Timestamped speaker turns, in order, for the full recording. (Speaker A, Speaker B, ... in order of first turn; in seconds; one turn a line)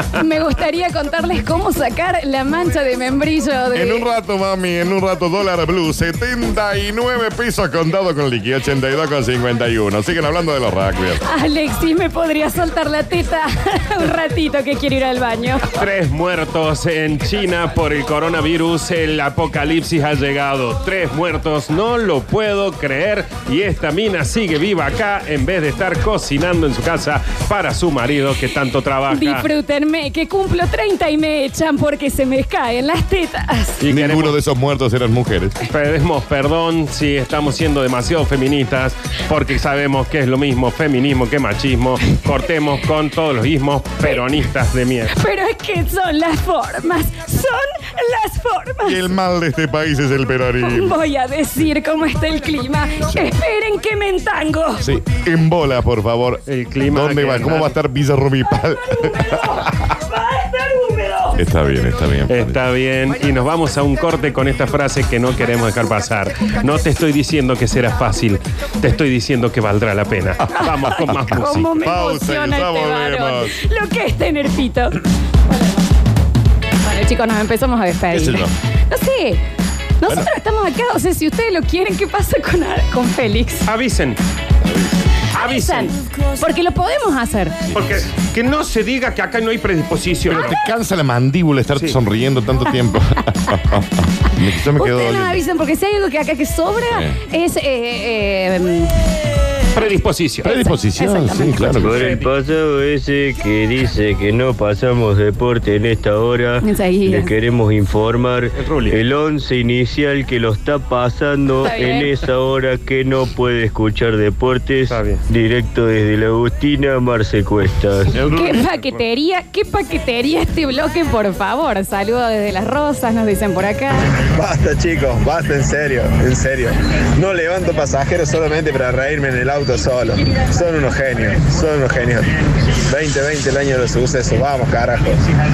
Speaker A: 0.1-4.0
Speaker B: 3.7-11.2
Speaker A: 11.2-15.8
Speaker C: 15.8-29.5
Speaker A: 29.1-33.8
Speaker C: 33.8-34.4
Speaker B: 33.9-35.5
Speaker C: 35.6-45.1
Speaker A: 45.1-49.1
Speaker B: 48.8-51.0
Speaker A: 50.6-54.9
Speaker B: 54.8-59.7
Speaker C: 56.5-57.7
Speaker A: 58.9-61.4
Speaker B: 61.4-62.6
Speaker C: 62.3-71.9
Speaker A: 70.5-75.9
Speaker B: 71.8-73.6
Speaker A: 76.8-79.4
Speaker B: 78.1-78.5
Speaker A: 80.0-83.7
Speaker C: 83.7-84.2
Speaker C: 85.3-86.0
Speaker A: 85.5-87.6
Speaker C: 87.7-90.5
Speaker B: 90.3-95.4
Speaker A: 94.8-98.9
Speaker B: 96.8-97.2
Speaker C: 99.7-100.5
Speaker A: 100.4-101.9
Speaker B: 100.4-102.0
Speaker D: 101.7-118.1
Speaker C: 101.8-102.3
Speaker A: 106.6-107.3
Speaker C: 108.6-109.0
Speaker A: 111.6-112.1
Speaker C: 114.9-115.2
Speaker B: 118.1-118.6
Speaker C: 118.2-119.0
Speaker A: 118.3-124.1
Speaker E: 124.3-132.2
Speaker E: 132.9-135.1